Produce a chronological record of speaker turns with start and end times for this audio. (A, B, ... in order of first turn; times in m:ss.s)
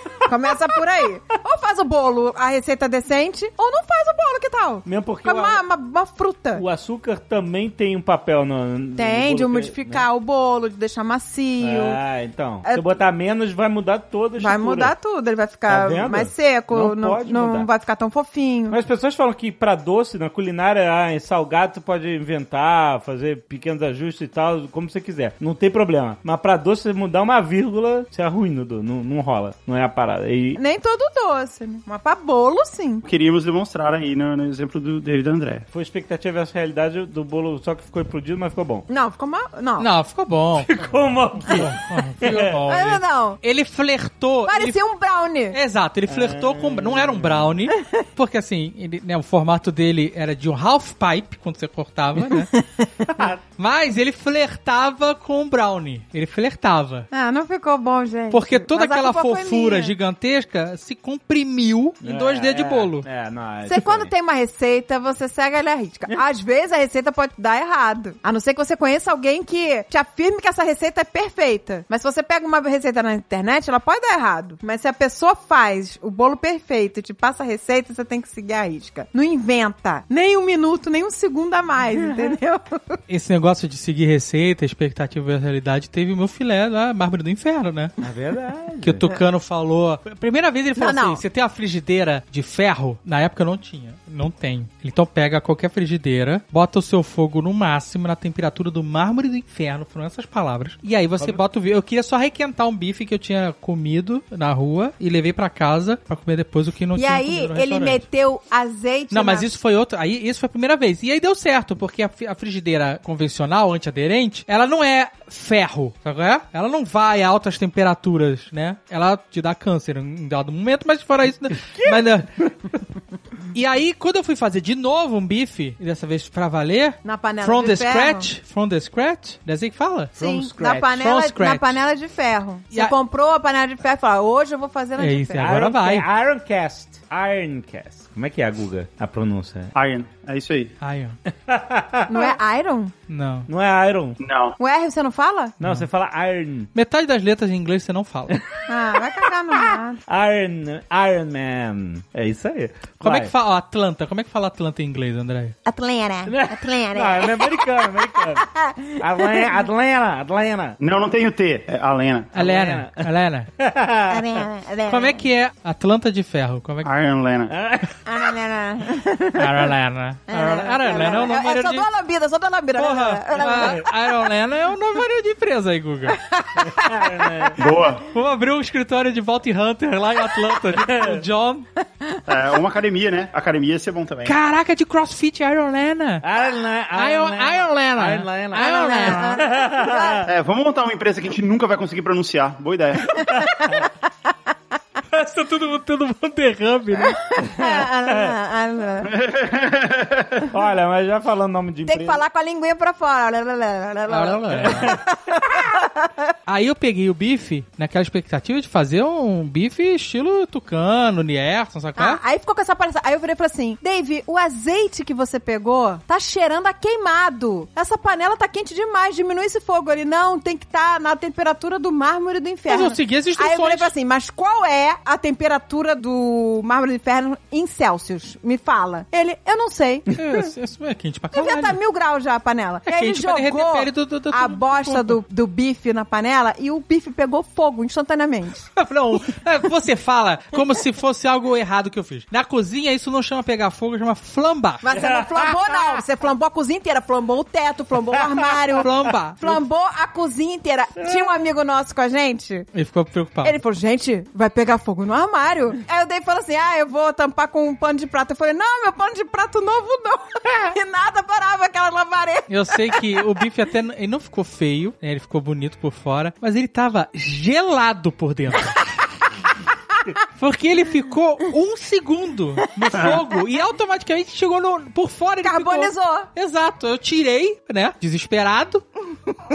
0:00.2-0:06.6 A
0:04.9-0:05.6 B
0:06.6-0:10.1 B
0:09.0-0:12.0 A
0:11.6-0:14.9 B
0:12.6-0:13.0 A
0:14.4-0:18.8 A
0:15.7-0:17.7 B
0:18.7-0:30.6 B
0:30.6-0:33.0 A
0:33.0-0:35.7 C
0:35.7-0:38.9 B
0:38.9-0:39.9 A
0:39.8-0:40.9 D
0:40.7-0:42.5 B
0:41.4-0:44.8 D
0:42.7-0:43.4 A
0:44.5-0:45.6 A
0:45.5-0:52.5 D
0:46.1-0:47.6 B
0:52.2-0:52.9 A
0:53.0-0:53.4 B
0:53.6-0:57.1 D
0:57.1-1:00.0 A
0:58.3-1:03.1 D
1:02.0-1:04.1 B
1:03.7-1:23.0 A
1:22.0-1:22.3 B
1:23.1-1:28.0 D
1:28.0-1:29.0 B
1:28.8-1:48.0 D
1:30.8-1:31.2 A
1:47.0-1:49.5 A
1:49.1-2:02.3 D
2:01.8-2:02.5 B
2:03.5-2:10.2 D
2:07.0-2:08.3 A
2:10.2-2:10.9 B
2:10.2-2:15.5 A
2:10.9-2:11.8 D
2:15.0-2:16.1 D
2:15.4-2:19.7 B
2:19.7-2:20.7 C
2:20.8-2:21.2 D
2:21.4-2:22.4 B
2:22.1-2:22.9 A
2:23.1-2:23.5 D
2:23.5-2:24.2 B
2:24.2-2:24.6 C
2:24.6-2:25.6 A
2:25.6-2:26.7 B
2:25.6-2:25.9 D
2:26.7-2:28.4 D
2:28.7-2:30.0 A
2:30.1-2:33.3 B
2:33.0-2:35.6 D
2:35.7-2:39.6 A
2:36.3-2:40.8 B
2:40.8-2:42.3 C
2:42.3-2:43.5 D
2:42.4-2:43.1 B
2:43.6-2:44.4 B
2:44.1-2:45.2 A
2:44.9-2:46.9 D
2:46.8-2:47.5 C
2:47.5-2:47.9 B
2:48.1-2:49.7 A
2:49.4-2:51.8 D
2:50.3-2:54.1 A
2:52.8-2:56.2 D
2:53.5-2:53.8 B
2:56.2-2:57.7 A
2:56.6-2:57.6 B
2:57.6-2:58.0 C
2:58.1-3:01.7 D
3:00.8-3:01.2 B
3:02.3-3:04.4 C
3:04.3-3:06.2 D
3:06.2-3:10.3 B
3:07.0-3:09.5 D
3:08.6-3:10.2 A
3:10.2-3:13.2 C
3:13.2-3:13.8 B
3:13.3-3:13.9 A
3:15.1-3:17.2 D
3:17.1-3:19.1 A
3:17.6-3:18.3 B
3:19.0-3:20.5 C
3:20.5-3:22.2 B
3:21.9-3:26.1 A
3:24.1-3:25.0 D
3:24.5-3:25.0 B
3:26.5-3:32.2 D
3:32.0-3:50.1 A
3:42.7-3:43.9 D
3:50.1-3:51.8 D
3:51.3-3:58.7 A
3:52.9-3:55.2 D
3:58.8-4:05.0 D
4:04.8-4:08.9 A
4:08.8-4:09.6 D
4:09.4-4:12.7 A
4:12.7-4:13.6 D
4:13.4-4:23.2 A
4:22.5-4:28.9 D
4:30.4-4:38.8 D
4:35.4-4:36.3 A